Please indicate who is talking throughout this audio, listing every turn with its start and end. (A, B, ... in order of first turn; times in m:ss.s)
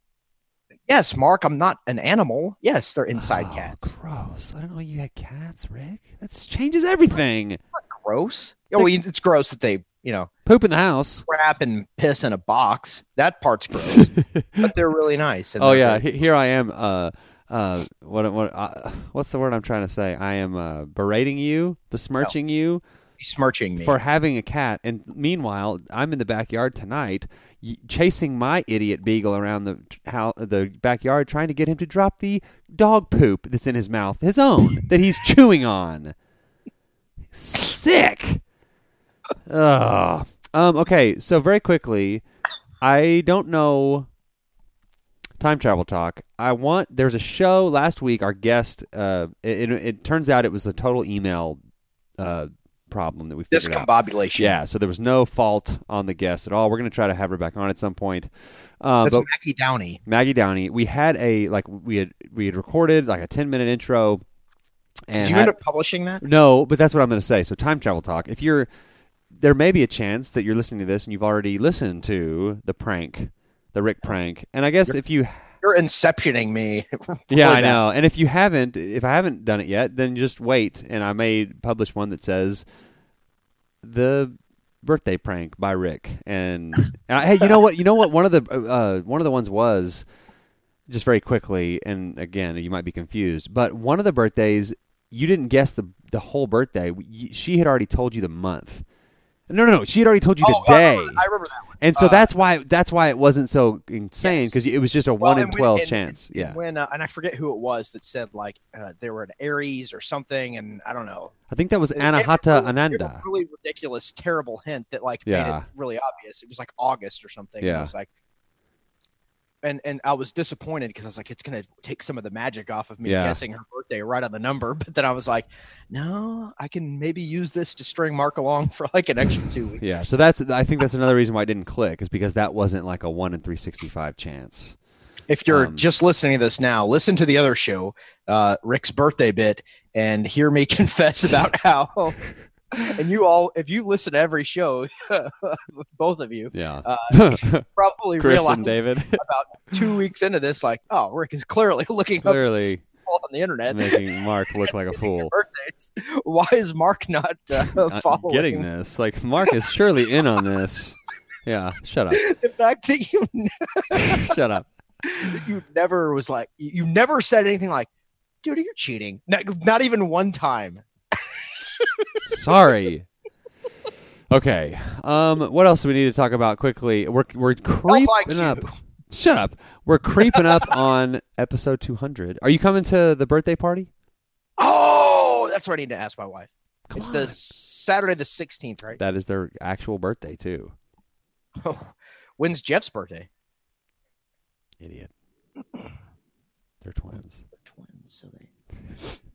0:00.9-0:03.8 A
0:03.2-0:07.6 B
0:07.8-0:10.3 A
0:10.5-0:11.3 B
0:11.3-0:16.0 A
0:13.9-0:14.7 B
0:15.6-0:22.8 B
0:23.2-0:24.0 A
0:23.8-0:36.2 B
0:37.3-0:38.4 B
0:39.5-0:42.2 B
0:42.8-0:44.1 B
0:45.4-0:51.6 B
0:52.2-0:59.3 B
0:53.5-0:54.6 A
0:59.0-1:00.0 A
1:00.1-1:04.2 B
1:05.1-1:05.6 B
1:05.2-1:06.2 A
1:06.2-1:08.7 B
1:09.3-1:15.5 B
1:15.6-1:17.8 A
1:17.3-1:22.6 B
1:23.8-1:30.1 B
1:30.9-1:38.8 B
1:39.5-1:41.2 B
1:40.4-1:42.3 A
1:41.8-1:46.6 B
1:44.2-1:44.6 A
1:45.2-1:51.3 A
1:51.5-1:53.2 B
1:52.0-1:58.1 A
1:55.3-1:55.7 B
1:57.6-1:57.9 B
1:59.6-2:09.8 A
2:03.0-2:03.4 B
2:09.8-2:14.8 B
2:15.3-2:22.2 A
2:15.5-2:15.9 B
2:22.8-2:34.1 A
2:26.5-2:27.7 B
2:28.2-2:29.2 B
2:32.2-2:32.8 B
2:33.7-2:35.3 B
2:34.7-2:38.7 A
2:37.8-2:42.2 B
2:42.1-2:44.4 A
2:43.9-2:44.7 B
2:45.0-2:47.9 A
2:48.4-2:50.8 A
2:51.6-2:52.2 A
2:52.3-2:53.1 B
2:54.3-3:03.9 B
2:57.9-2:58.8 A
3:04.6-3:09.0 A
3:06.9-3:07.4 B
3:09.0-3:10.7 B
3:11.6-3:13.3 A
3:14.8-3:15.1 B
3:16.8-3:17.4 B
3:17.7-3:18.5 A